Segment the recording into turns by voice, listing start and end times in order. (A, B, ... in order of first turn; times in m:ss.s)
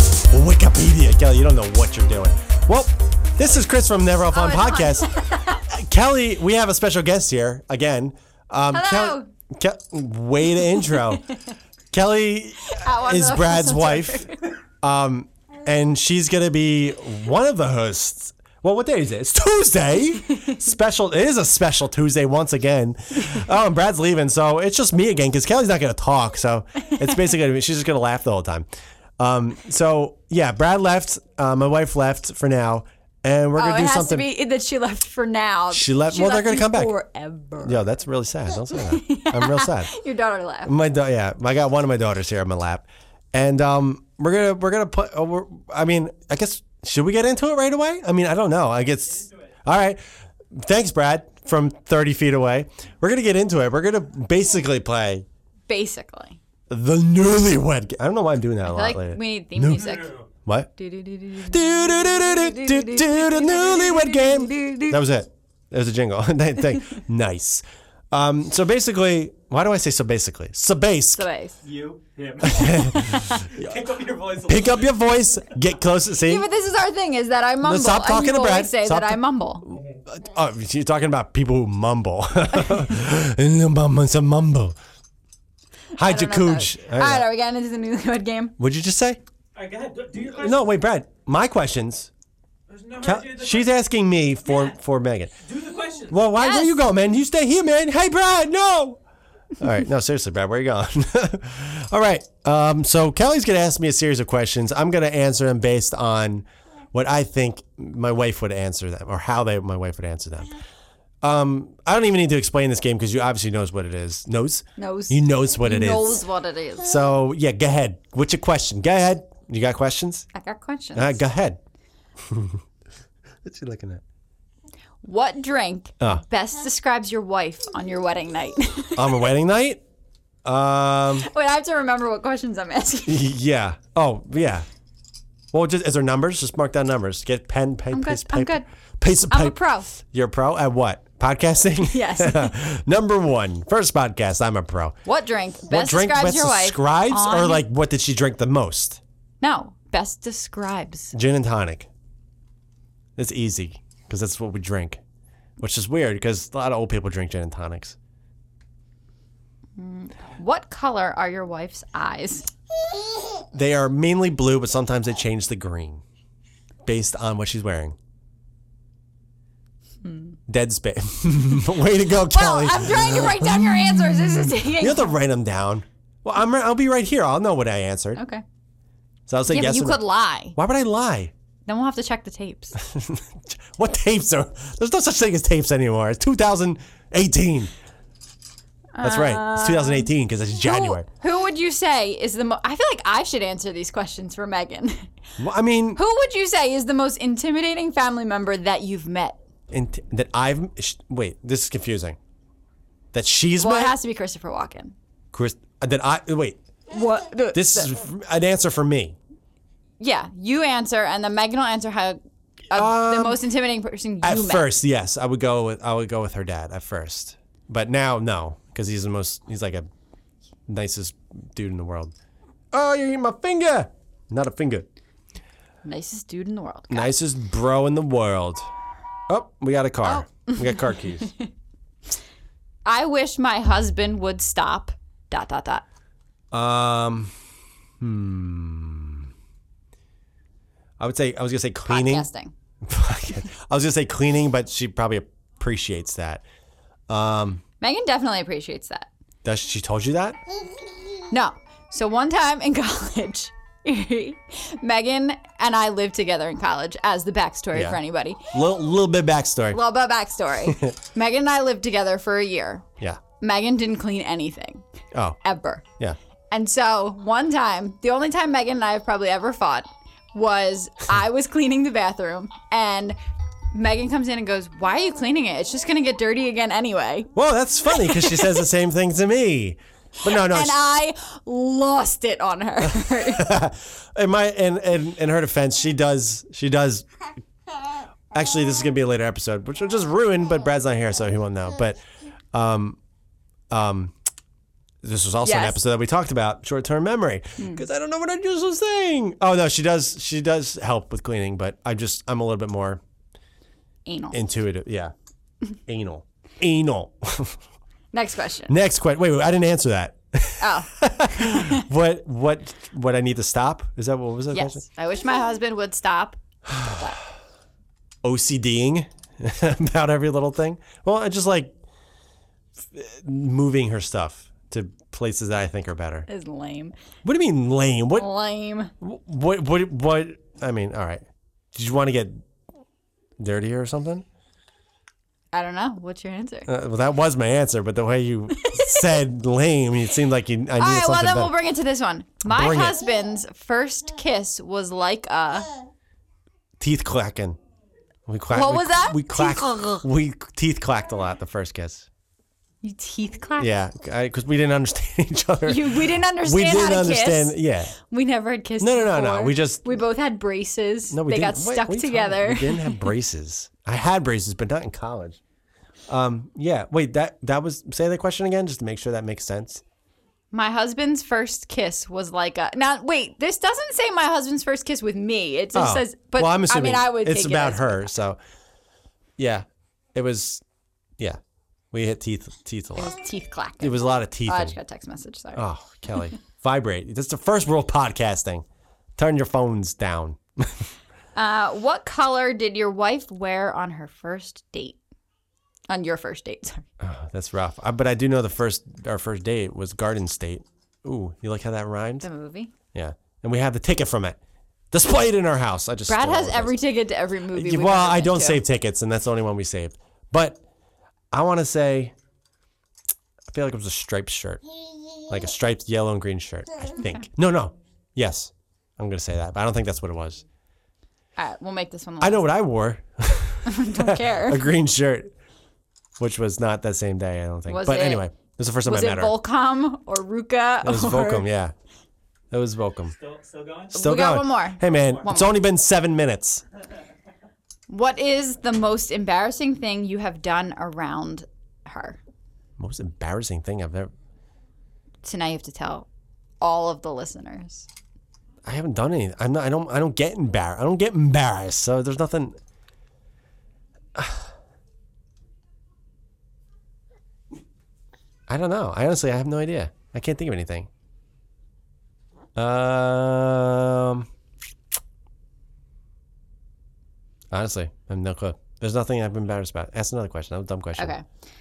0:00.3-0:11.2 A
0:04.3-0:05.6 B
0:08.7-0:09.3 B
0:10.7-0:11.5 B
0:11.9-0:14.3 A
0:12.7-0:14.5 B
0:14.8-0:28.7 A
0:29.2-0:34.3 A
0:33.6-0:37.8 B
0:35.7-0:36.9 A
0:37.6-0:39.9 A
0:38.7-0:40.7 B
0:40.6-0:50.0 A
0:50.5-0:55.2 A
0:55.7-0:56.4 B
0:56.7-1:00.7 A
0:58.6-1:00.2 B
1:00.8-1:05.0 B
1:01.4-1:11.3 A
1:11.1-1:11.6 B
1:11.6-1:14.9 C
1:12.4-1:13.5 A
1:14.4-1:16.5 A
1:16.2-1:19.7 B
1:17.6-1:24.8 A
1:25.9-1:28.5 B
1:26.0-1:27.3 A
1:28.6-1:29.2 A
1:29.5-1:30.7 C
1:30.2-1:32.1 A
1:32.7-1:33.7 C
1:33.0-1:35.4 A
1:34.4-1:34.8 C
1:35.4-1:36.2 C
1:36.1-1:39.0 A
1:36.4-1:36.8 B
1:39.6-1:50.6 A
1:51.2-1:56.2 A
1:54.8-1:57.0 B
1:56.8-2:00.3 A
2:00.3-2:01.2 B
2:00.9-2:01.6 A
2:02.3-2:02.6 A
2:03.4-2:04.0 A
2:05.0-2:09.2 B
2:09.0-2:09.8 A
2:10.4-2:11.3 A
2:11.2-2:13.2 B
2:13.0-2:14.6 A
2:15.5-2:25.0 A
2:17.9-2:18.6 B
2:19.3-2:19.9 B
2:21.9-2:22.6 B
2:25.0-2:27.6 B
2:25.7-2:29.0 A
2:29.4-2:31.1 B
2:31.1-2:31.9 A
2:33.2-2:35.0 A
2:35.6-2:38.0 A
2:39.8-2:42.5 B
2:43.5-2:46.0 A
2:46.8-2:48.0 A
2:50.0-2:50.4 B
2:50.5-2:53.5 A
2:52.3-2:55.1 B
2:54.8-2:58.2 A
2:58.2-2:58.4 B
2:59.3-3:01.3 A
2:59.5-3:00.6 B
3:01.6-3:02.8 B
3:02.8-3:07.7 A
3:08.9-3:10.1 B
3:09.0-3:11.1 A
3:10.6-3:15.1 B
3:15.4-3:16.0 A
3:15.9-3:19.4 B
3:19.7-3:22.2 A
3:23.1-3:24.0 A
3:23.6-3:24.9 B
3:25.3-3:26.6 A
3:26.9-3:27.9 B
3:27.5-3:29.2 A
3:30.0-3:32.2 B
3:32.7-3:34.7 B
3:32.7-3:33.4 A
3:34.2-3:39.9 A
3:40.7-3:42.1 A
3:42.7-3:44.9 A
3:45.8-3:47.1 B
3:46.9-3:48.7 A
3:49.3-3:51.3 A
3:50.0-3:50.8 B
3:52.8-3:55.8 B
3:56.5-3:57.3 A
3:58.0-3:59.3 A
4:01.0-4:02.3 A
4:01.9-4:02.5 B
4:02.8-4:06.4 A
4:07.1-4:07.6 A
4:07.8-4:09.1 B
4:09.4-4:10.4 A
4:11.3-4:18.4 B
4:17.7-4:18.0 A
4:18.5-4:19.8 A
4:19.7-4:22.8 B
4:20.6-4:20.9 A
4:23.4-4:24.8 B
4:25.1-4:25.4 A
4:25.4-4:25.8 B
4:26.5-4:33.2 B
4:33.7-4:37.3 B
4:37.3-4:40.8 A
4:37.9-4:38.6 B
4:40.2-4:43.6 B
4:42.8-4:47.0 A
4:48.3-4:52.0 A
4:52.5-4:53.0 A
4:53.7-4:54.1 A
4:55.0-5:03.0 A
4:55.4-4:55.8 B
4:57.6-4:57.8 B
5:04.0-5:04.4 B
5:04.3-5:05.1 A
5:05.9-5:07.6 A
5:08.1-5:08.7 B
5:08.7-5:14.8 A
5:10.6-5:11.8 B
5:14.5-5:17.2 B
5:18.2-5:21.7 A
5:22.9-5:26.3 A
5:26.3-5:26.9 B
5:27.2-5:28.3 A
5:28.1-5:28.9 B
5:29.0-5:32.4 A
5:33.4-5:34.2 A
5:35.5-5:36.7 B
5:36.7-5:41.5 A
5:38.6-5:39.2 B
5:40.8-5:45.7 B
5:42.4-5:43.0 A
5:46.8-5:47.6 A
5:48.3-5:52.1 A
5:48.5-5:50.0 B
5:52.8-5:53.7 B
5:53.6-5:58.0 A
5:55.6-5:57.6 B
5:58.1-6:03.1 B
5:58.8-5:59.8 A
6:01.1-6:05.4 A
6:06.1-6:09.8 A
6:10.5-6:18.1 B
6:15.7-6:18.4 A
6:19.4-6:20.6 A
6:21.9-6:23.2 A
6:23.0-6:25.7 B
6:23.8-6:24.8 A
6:25.6-6:28.6 A
6:29.2-6:30.8 A
6:31.3-6:35.0 B
6:35.9-6:36.8 B
6:37.0-6:42.3 A
6:42.2-6:42.7 B
6:42.9-6:44.4 A
6:44.9-6:46.8 A
6:46.1-6:48.6 B
6:47.5-6:50.6 A
6:51.3-6:52.1 A
6:53.5-6:54.6 A
6:55.3-7:00.4 A
7:01.4-7:02.5 B
7:02.2-7:05.3 A
7:03.6-7:04.6 B
7:06.2-7:09.4 A
7:07.7-7:08.3 B
7:08.8-7:11.4 B
7:10.8-7:11.7 A
7:12.5-7:13.1 A
7:13.1-7:14.0 C
7:13.9-7:15.6 B
7:13.9-7:16.6 A
7:17.9-7:22.2 B
7:22.8-7:24.1 A
7:25.2-7:26.1 B
7:26.6-7:27.9 B
7:28.6-7:32.6 A
7:34.1-7:34.5 A
7:38.5-7:40.9 A
7:42.6-7:44.3 A
7:47.5-7:51.1 A
7:51.0-7:51.2 B